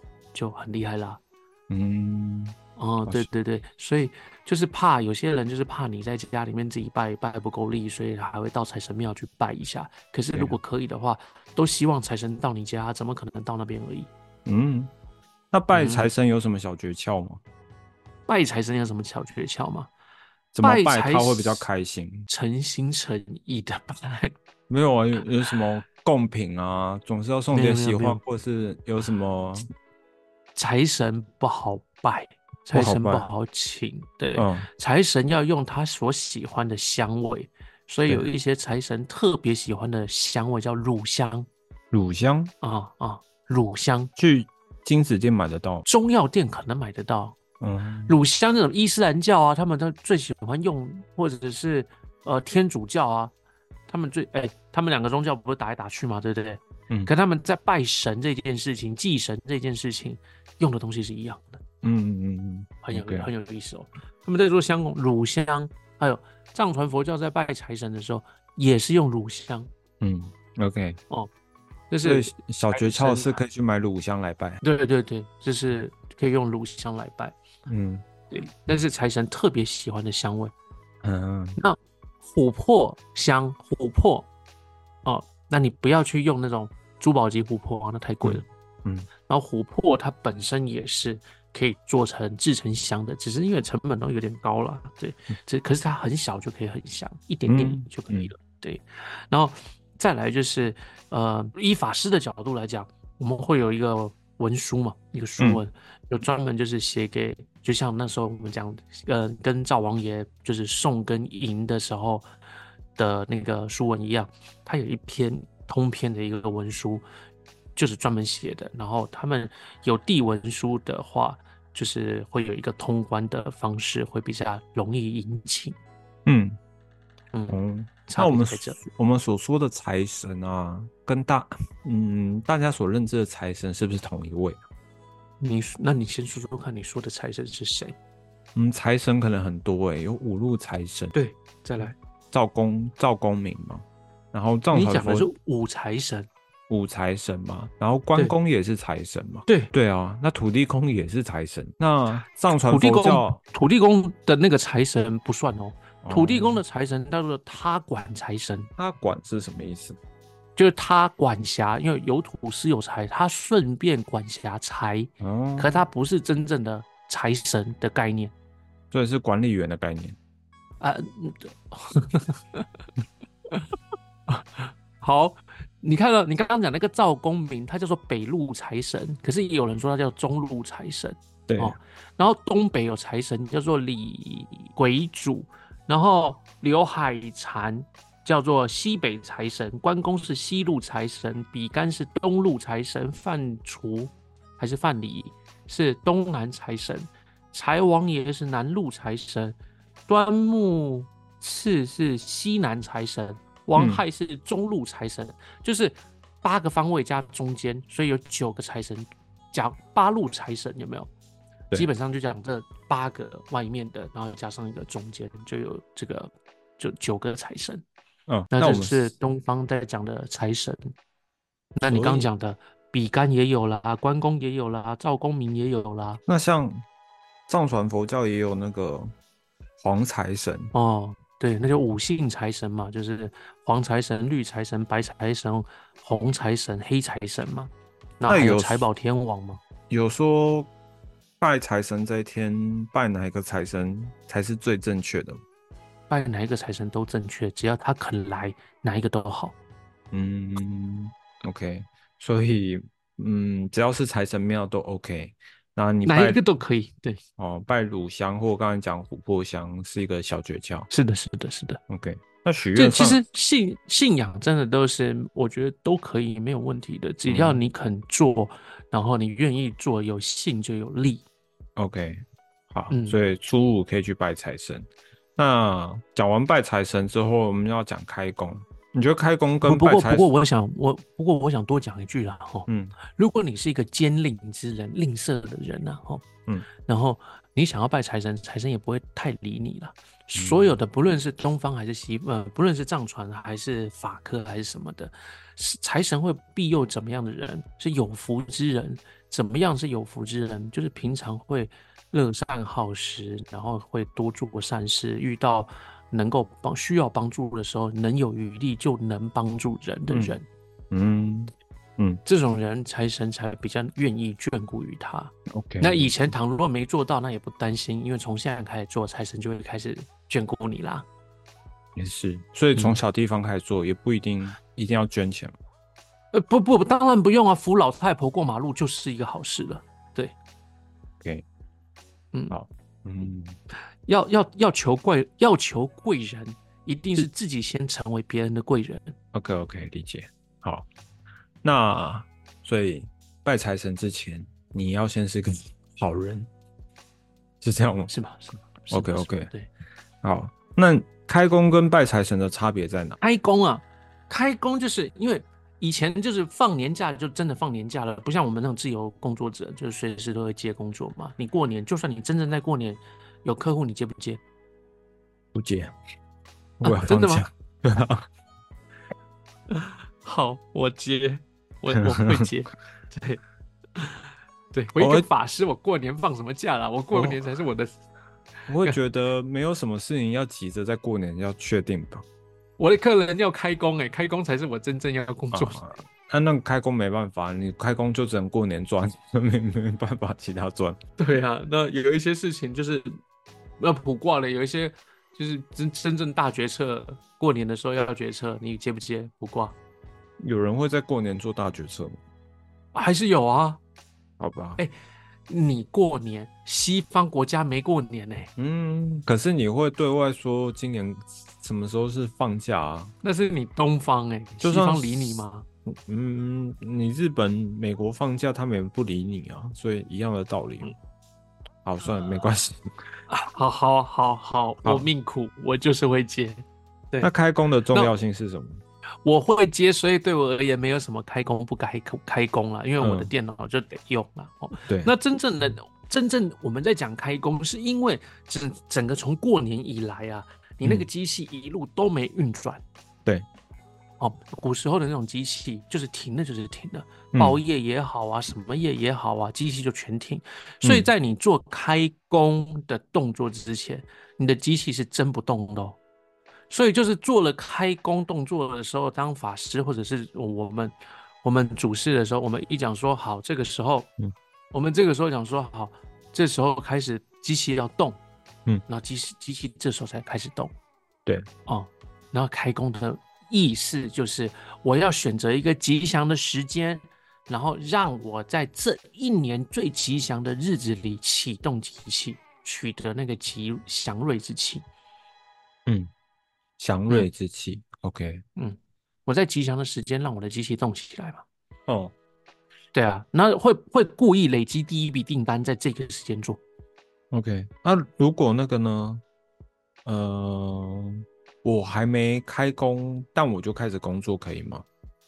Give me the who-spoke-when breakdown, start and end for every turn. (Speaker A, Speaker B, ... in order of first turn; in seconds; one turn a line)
Speaker A: 0.3-1.2
Speaker B: 1.7-3.3
Speaker A: 2.8-14.1
Speaker B: 10.3-10.6
Speaker B: 14.4-14.9
Speaker B: 15.5-17.4
Speaker A: 15.7-16.1
Speaker A: 18.3-19.9
Speaker B: 20.5-22.3
Speaker A: 20.6-21.6
Speaker A: 22.3-24.3
Speaker B: 24.7-29.6
Speaker A: 27.5-28.2
Speaker A: 30.6-41.5
Speaker B: 32.7-33.3
Speaker B: 34.4-34.7
Speaker B: 41.9-42.5
Speaker A: 42.6-44.1
Speaker B: 44.1-45.8
Speaker A: 45.9-47.4
Speaker B: 47.6-48.1
Speaker A: 48.1-53.3
Speaker A: 53.9-61.6
Speaker B: 61.8-63.3
Speaker A: 62.8-69.7
Speaker B: 70.0-71.0
Speaker A: 71.9-73.4
Speaker B: 72.0-74.6
Speaker A: 74.6-77.3
Speaker B: 77.7-78.0
Speaker A: 78.3-80.5
Speaker B: 81.0-81.6
Speaker A: 81.6-84.3
Speaker A: 85.0-88.5
Speaker B: 88.2-89.1
Speaker A: 89.3-112.3
Speaker B: 97.5-98.3
Speaker A: 113.0-117.0
Speaker A: 117.8-125.8
Speaker B: 126.2-126.6
Speaker A: 127.3-128.8
Speaker B: 127.5-134.6
Speaker A: 135.4-137.9
Speaker B: 138.5-141.2
Speaker A: 141.1-141.9
Speaker B: 142.3-145.3
Speaker A: 144.7-146.3
Speaker B: 146.7-153.4
Speaker A: 152.5-158.7
Speaker B: 156.0-156.6
Speaker B: 158.8-160.0
Speaker A: 160.6-168.3
Speaker B: 165.2-165.8
Speaker B: 168.9-170.2
Speaker A: 170.8-172.8
Speaker A: 174.3-199.6
Speaker B: 181.5-181.8
Speaker A: 200.1-211.1
Speaker B: 203.8-204.0
Speaker A: 211.7-217.8
Speaker B: 218.3-219.1
Speaker A: 218.5-220.9
Speaker A: 221.8-226.2
Speaker B: 221.9-222.3
Speaker B: 226.3-226.8
Speaker B: 227.5-229.1
Speaker B: 229.8-230.7
Speaker A: 230.7-239.6
Speaker B: 238.3-238.8
Speaker B: 239.9-240.7
Speaker B: 241.4-245.4
Speaker A: 246.1-249.5
Speaker B: 250.1-256.4
Speaker A: 256.0-257.2
Speaker B: 257.4-260.9
Speaker A: 260.9-261.8
Speaker B: 261.9-263.2
Speaker A: 262.7-271.2
Speaker B: 267.2-267.6
Speaker B: 271.8-280.3
Speaker A: 272.9-273.2
Speaker A: 279.6-286.2
Speaker B: 282.7-282.9
Speaker A: 286.8-310.4
Speaker B: 290.4-290.7
Speaker B: 310.1-310.4
Speaker B: 310.9-312.2
Speaker A: 312.2-321.0
Speaker B: 315.5-316.1
Speaker B: 321.9-325.5
Speaker A: 326.3-330.3
Speaker B: 332.5-333.6
Speaker A: 334.1-339.1
Speaker B: 339.3-340.9
Speaker B: 341.6-346.5
Speaker B: 347.6-348.1
Speaker A: 348.1-349.7
Speaker B: 348.9-349.5
Speaker B: 350.2-353.2
Speaker A: 353.2-364.4
Speaker B: 365.5-365.9
Speaker B: 366.8-368.2
Speaker A: 366.8-367.4
Speaker A: 369.7-373.4
Speaker B: 372.0-372.3
Speaker A: 373.9-378.0
Speaker B: 375.0-375.2
Speaker B: 377.1-377.4
Speaker B: 378.7-382.2
Speaker A: 382.8-385.9
Speaker B: 385.5-391.0
Speaker A: 391.2-393.1
Speaker A: 393.8-399.8
Speaker B: 400.4-402.2
Speaker A: 402.9-403.8
Speaker B: 404.4-404.8
Speaker A: 405.5-408.5
Speaker B: 408.6-413.1
Speaker A: 413.2-415.6
Speaker B: 414.6-420.9
Speaker B: 421.8-422.9
Speaker A: 422.1-422.4
Speaker A: 423.3-427.3
Speaker B: 427.2-428.8
Speaker A: 429.2-442.8
Speaker B: 433.0-433.3
Speaker B: 434.9-435.1
Speaker A: 444.2-456.0
Speaker B: 447.3-447.6
Speaker B: 450.8-451.1
Speaker A: 456.7-464.1
Speaker A: 464.7-468.2
Speaker A: 468.9-470.7
Speaker A: 471.6-484.8
Speaker B: 486.8-488.4
Speaker A: 488.6-491.4
Speaker B: 491.9-492.1
Speaker A: 492.9-496.6
Speaker B: 497.3-499.2
Speaker B: 500.0-504.9